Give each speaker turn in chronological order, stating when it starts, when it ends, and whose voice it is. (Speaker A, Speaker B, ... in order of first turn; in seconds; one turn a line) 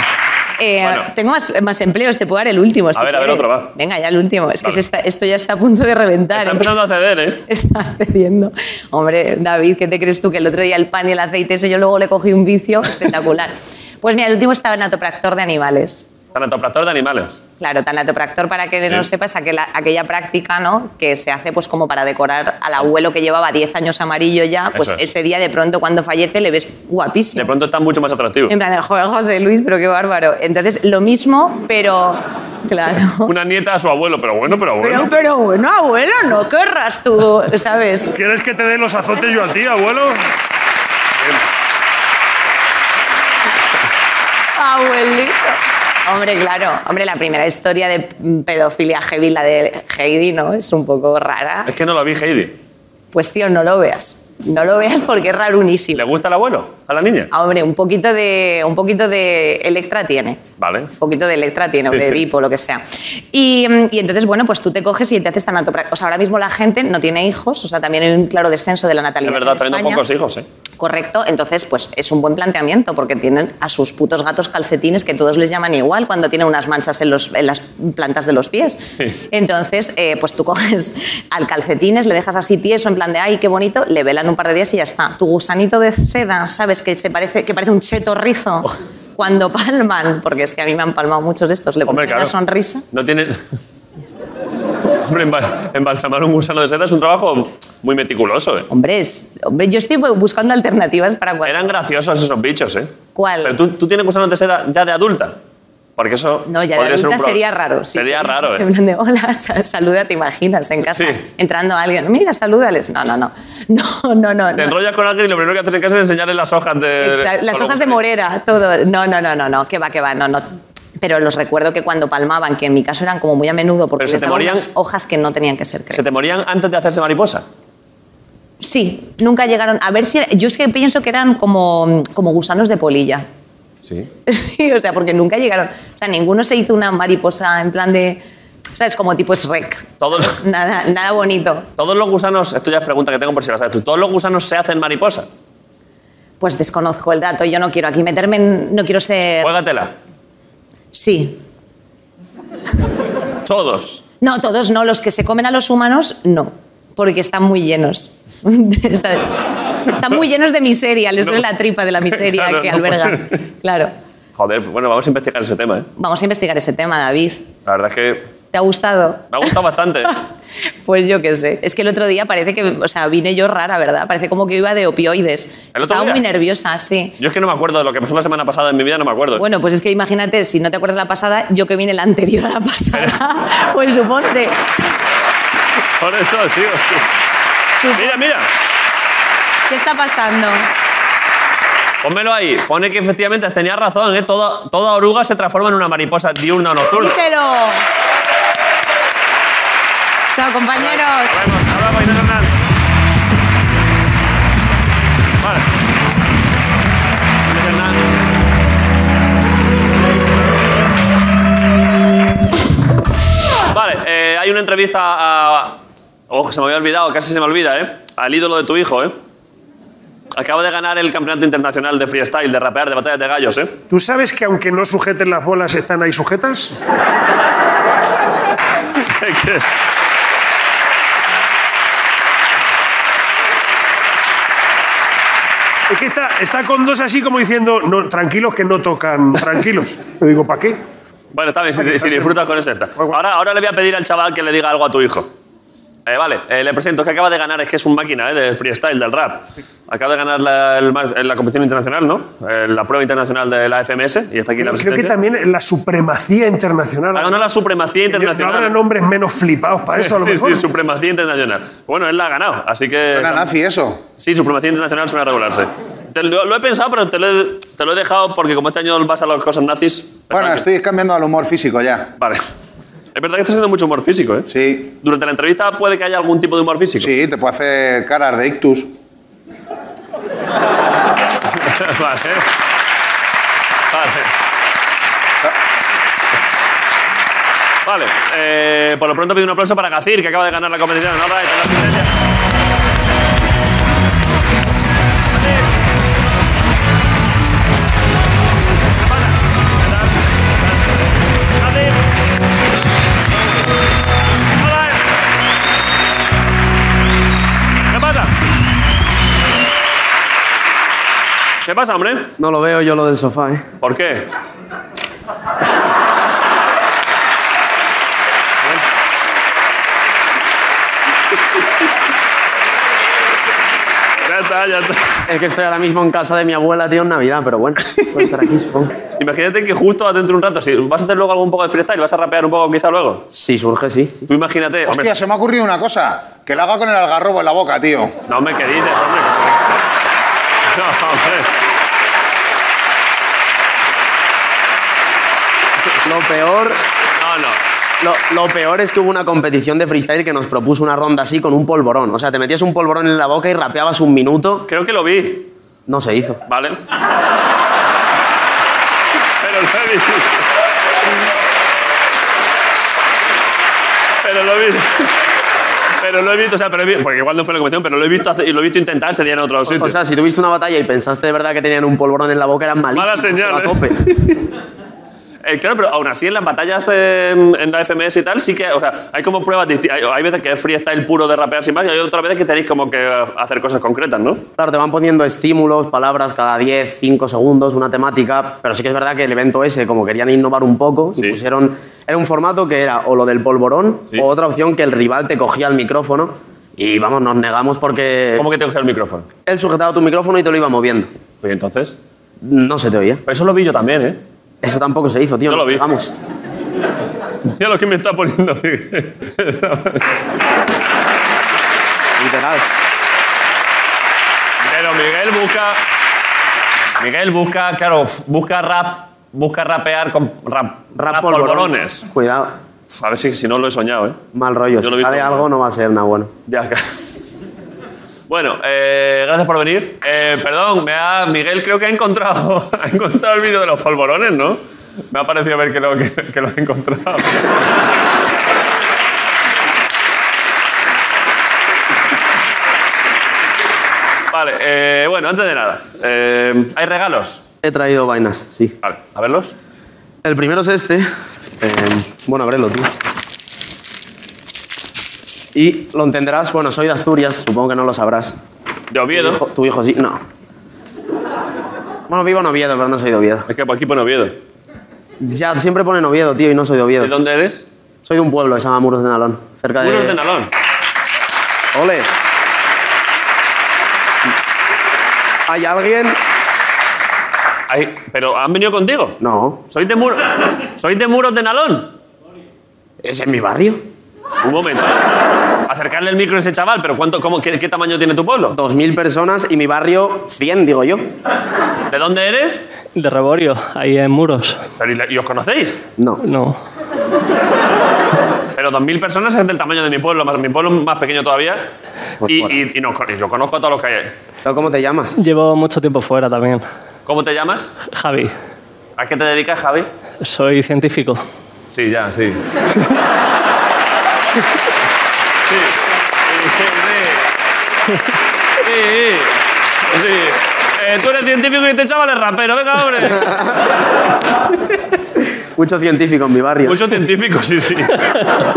Speaker A: 0.6-6.7
Speaker B: 0.8-1.1
Speaker B: 3.0-3.7
Speaker B: 6.3-7.4
Speaker A: 7.5-16.1
Speaker B: 16.3-17.4
Speaker A: 17.6-27.5
Speaker B: 24.8-25.0
Speaker B: 27.4-28.6
Speaker A: 28.5-33.3
Speaker B: 33.2-35.1
Speaker A: 34.8-38.1
Speaker C: 38.1-40.2
Speaker A: 44.6-51.7
Speaker B: 51.7-52.5
Speaker A: 53.1-56.0
Speaker B: 55.9-57.3
Speaker A: 57.3-60.4
Speaker B: 60.6-60.9
Speaker A: 61.0-70.0
Speaker B: 61.9-62.2
Speaker B: 69.2-70.5
Speaker A: 70.8-92.8
Speaker B: 91.9-92.3
Speaker B: 92.9-93.4
Speaker B: 95.0-98.7
Speaker A: 98.7-101.6
Speaker B: 101.4-105.4
Speaker A: 103.2-103.6
Speaker B: 106.0-107.4
Speaker A: 106.5-114.8
Speaker B: 107.9-108.7
Speaker B: 110.9-111.2
Speaker B: 114.6-118.0
Speaker A: 117.0-120.5
Speaker A: 121.0-126.0
Speaker B: 124.0-124.7
Speaker B: 125.9-127.5
Speaker A: 128.6-133.2
Speaker A: 134.3-138.2
Speaker A: 138.8-141.7
Speaker B: 140.0-140.4
Speaker B: 141.8-145.3
Speaker A: 146.4-149.5
Speaker B: 149.4-149.9
Speaker A: 150.9-151.4
Speaker B: 153.5-154.0
Speaker A: 154.2-159.3
Speaker A: 159.9-163.9
Speaker B: 161.2-161.4
Speaker B: 162.1-163.4
Speaker B: 164.4-165.9
Speaker A: 166.0-167.5
Speaker B: 167.7-168.3
Speaker A: 168.5-169.5
Speaker B: 169.3-170.1
Speaker A: 170.8-177.2
Speaker B: 175.7-176.2
Speaker B: 177.2-179.4
Speaker A: 179.4-184.6
Speaker B: 186.0-187.1
Speaker A: 187.8-188.2
Speaker B: 187.9-188.5
Speaker A: 189.7-190.7
Speaker B: 192.0-197.2
Speaker A: 196.9-197.8
Speaker A: 200.3-201.5
Speaker B: 200.8-202.6
Speaker B: 205.4-205.7
Speaker B: 207.5-208.1
Speaker B: 213.7-219.2
Speaker B: 220.3-223.8
Speaker C: 223.9-226.8
Speaker B: 229.1-229.7
Speaker C: 235.9-240.8
Speaker B: 241.3-245.3
Speaker C: 241.8-242.4
Speaker B: 246.1-255.1
Speaker C: 254.6-257.4
Speaker B: 257.1-258.7
Speaker C: 258.1-260.7
Speaker B: 260.0-263.4
Speaker D: 263.1-264.0
Speaker B: 264.2-270.6
Speaker D: 270.3-272.1
Speaker B: 273.1-274.5
Speaker D: 274.5-274.9
Speaker B: 275.0-277.1
Speaker D: 277.0-278.9
Speaker B: 281.6-282.5
Speaker B: 283.9-284.3
Speaker B: 287.9-292.1
Speaker B: 295.4-295.6
Speaker B: 299.0-300.9
Speaker B: 301.6-302.0
Speaker B: 304.5-305.1
Speaker B: 307.9-308.3
Speaker B: 311.6-312.3
Speaker E: 312.4-313.6
Speaker B: 313.8-314.3
Speaker B: 324.2-325.1
Speaker E: 325.3-328.9
Speaker B: 329.2-333.2
Speaker E: 333.3-334.2
Speaker B: 334.3-335.1
Speaker D: 334.9-338.1
Speaker B: 338.3-339.5
Speaker B: 340.7-341.5
Speaker E: 346.1-346.8
Speaker B: 347.2-347.6
Speaker E: 348.0-354.7
Speaker B: 354.7-355.5
Speaker E: 355.9-356.4
Speaker B: 356.5-356.8
Speaker B: 359.4-360.4
Speaker B: 364.2-365.1
Speaker B: 366.0-370.0
Speaker E: 369.7-373.9
Speaker B: 372.9-374.3
Speaker B: 375.4-384.4
Speaker E: 384.6-398.5
Speaker B: 398.4-399.3
Speaker E: 399.5-401.1
Speaker B: 401.4-402.0
Speaker E: 402.4-403.2
Speaker B: 403.3-404.2
Speaker E: 404.6-406.1
Speaker B: 405.5-405.9
Speaker B: 407.5-410.1
Speaker E: 412.2-412.6
Speaker B: 414.6-415.8
Speaker B: 417.0-422.1
Speaker E: 421.0-422.5
Speaker B: 422.9-424.2
Speaker E: 424.3-426.3
Speaker B: 424.8-425.5
Speaker B: 426.5-426.9
Speaker B: 428.3-434.6
Speaker B: 435.1-437.4
Speaker B: 444.3-447.4
Speaker E: 447.6-448.7
Speaker B: 448.8-449.5
Speaker E: 450.2-451.1
Speaker E: 451.6-452.9
Speaker E: 455.6-458.4
Speaker B: 458.9-459.4
Speaker E: 459.1-460.2
Speaker E: 462.1-463.5
Speaker B: 463.5-464.4
Speaker E: 465.2-467.1
Speaker B: 467.0-467.6
Speaker E: 468.1-470.2
Speaker B: 469.8-470.5
Speaker E: 471.7-472.1
Speaker E: 475.5-476.2
Speaker B: 477.7-479.2
Speaker E: 479.2-479.6
Speaker B: 479.7-481.9
Speaker E: 483.0-483.8
Speaker B: 484.4-485.1
Speaker B: 485.7-488.6
Speaker E: 488.5-491.1
Speaker B: 491.9-492.6
Speaker F: 492.9-494.6
Speaker B: 494.8-495.8
Speaker F: 496.2-496.6
Speaker B: 498.6-501.6
Speaker E: 502.2-502.5
Speaker B: 502.2-504.1
Speaker E: 504.4-505.1
Speaker F: 505.2-506.6
Speaker B: 507.1-507.7
Speaker F: 507.9-508.3
Speaker B: 509.0-509.9
Speaker F: 510.2-511.2
Speaker B: 511.7-512.4
Speaker B: 515.5-517.3
Speaker B: 518.6-523.3
Speaker E: 525.6-526.8
Speaker B: 526.6-528.1